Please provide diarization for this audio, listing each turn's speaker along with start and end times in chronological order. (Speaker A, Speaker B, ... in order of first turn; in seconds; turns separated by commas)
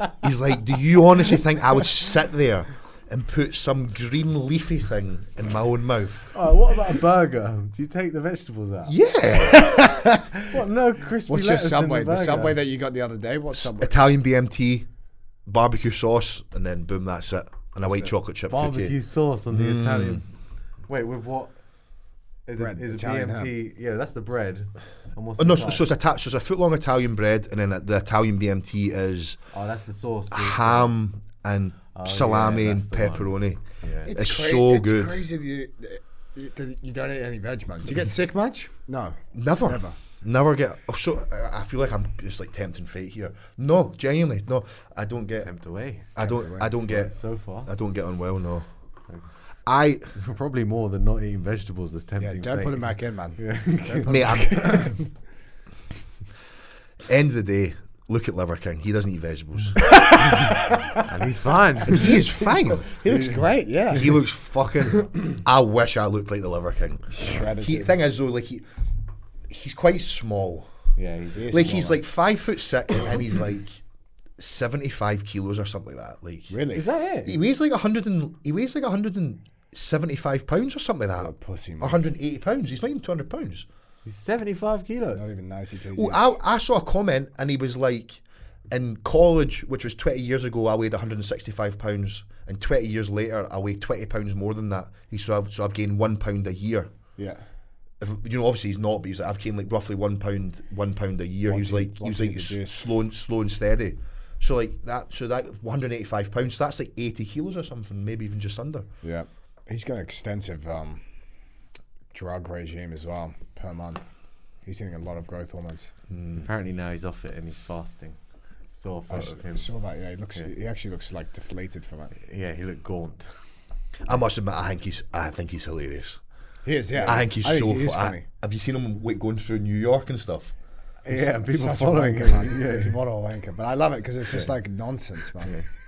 Speaker A: 0.2-6.3, Speaker B: 6.3-8.9, Speaker A: 8.8-9.8, Speaker C: 9.5-10.5, Speaker B: 10.4-12.6, Speaker C: 11.3-13.9, Speaker A: 13.6-14.9, Speaker A: 15.4-18.9, Speaker B: 18.5-20.3, Speaker A: 19.5-20.2, Speaker B: 20.9-21.6, Speaker B: 22.4-25.8, Speaker C: 22.6-23.5, Speaker A: 25.4-29.4, Speaker B: 29.5-30.9, Speaker A: 30.3-35.2, Speaker B: 31.9-34.1, Speaker C: 34.0-40.0, Speaker A: 39.3-45.5, Speaker B: 45.4-46.2, Speaker A: 46.1-48.7, Speaker C: 46.2-46.7, Speaker B: 46.8-47.7, Speaker A: 49.6-50.1, Speaker B: 50.1-54.8, Speaker C: 52.2-55.1, Speaker A: 54.0-54.9, Speaker A: 57.0-59.9, Speaker C: 59.9-61.0, Speaker B: 61.0-62.2, Speaker A: 61.9-62.9, Speaker C: 62.6-64.2, Speaker B: 63.0-63.4, Speaker A: 63.9-68.7, Speaker C: 67.1-67.9, Speaker A: 69.5-70.7, Speaker B: 71.0-71.8, Speaker C: 71.3-72.0, Speaker A: 71.5-73.8, Speaker A: 74.4-76.5, Speaker C: 76.5-76.8, Speaker B: 76.7-77.3, Speaker A: 77.2-83.7, Speaker C: 81.2-82.0, Speaker B: 84.0-85.2, Speaker C: 85.1-86.3, Speaker A: 85.9-96.9, Speaker C: 97.2-97.4, Speaker A: 98.0-108.9, Speaker C: 101.5-102.8, Speaker C: 109.0-111.0, Speaker C: 112.1-114.1, Speaker C: 114.6-115.9, Speaker A: 116.1-116.5, Speaker B: 116.3-118.2, Speaker B: 118.7-119.7, Speaker C: 119.1-122.1, Speaker B: 122.2-123.3, Speaker A: 124.1-126.2, Speaker C: 126.6-128.2, Speaker A: 127.0-130.5, Speaker B: 131.0-133.0, Speaker C: 131.1-135.5